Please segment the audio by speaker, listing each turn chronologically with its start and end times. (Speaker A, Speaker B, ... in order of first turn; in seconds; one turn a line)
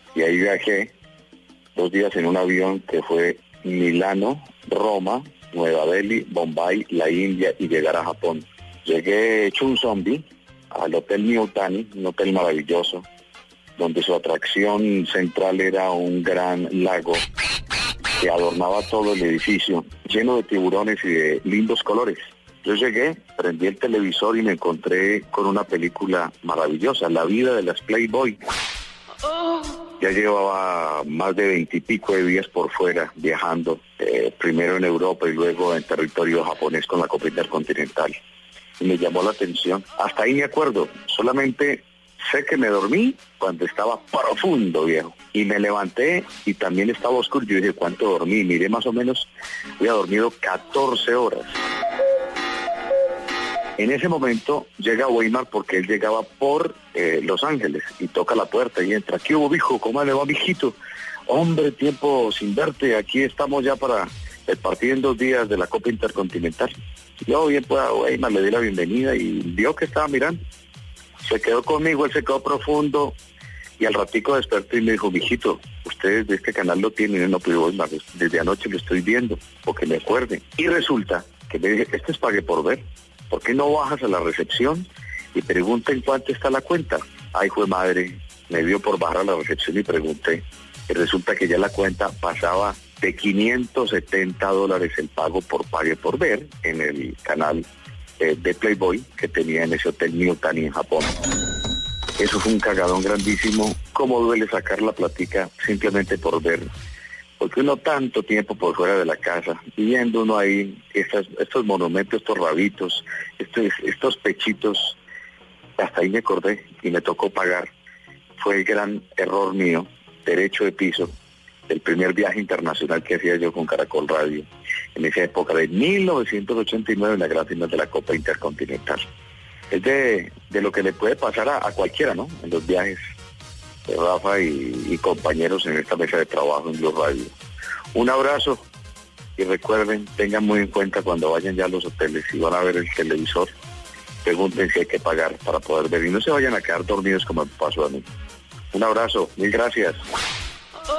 Speaker A: 0.1-0.9
Speaker A: 1.8-13.1
Speaker A: 13.8-17.2
Speaker A: 18.2-28.4
Speaker A: 30.0-38.2
Speaker A: 38.8-49.3
Speaker A: 49.8-51.5
Speaker A: 53.8-60.8
Speaker A: 61.3-66.7
Speaker A: 67.3-70.4
Speaker A: 71.2-73.2
Speaker A: 73.8-97.7
Speaker A: 98.2-101.2
Speaker A: 102.2-106.7
Speaker A: 107.4-115.0
Speaker A: 115.8-117.7
Speaker A: 118.4-121.1
Speaker A: 121.7-129.1
Speaker A: 129.7-133.0
Speaker A: 133.9-137.3
Speaker A: 137.9-138.6
Speaker A: 139.4-143.5
Speaker A: 144.2-148.1
Speaker A: 148.7-150.0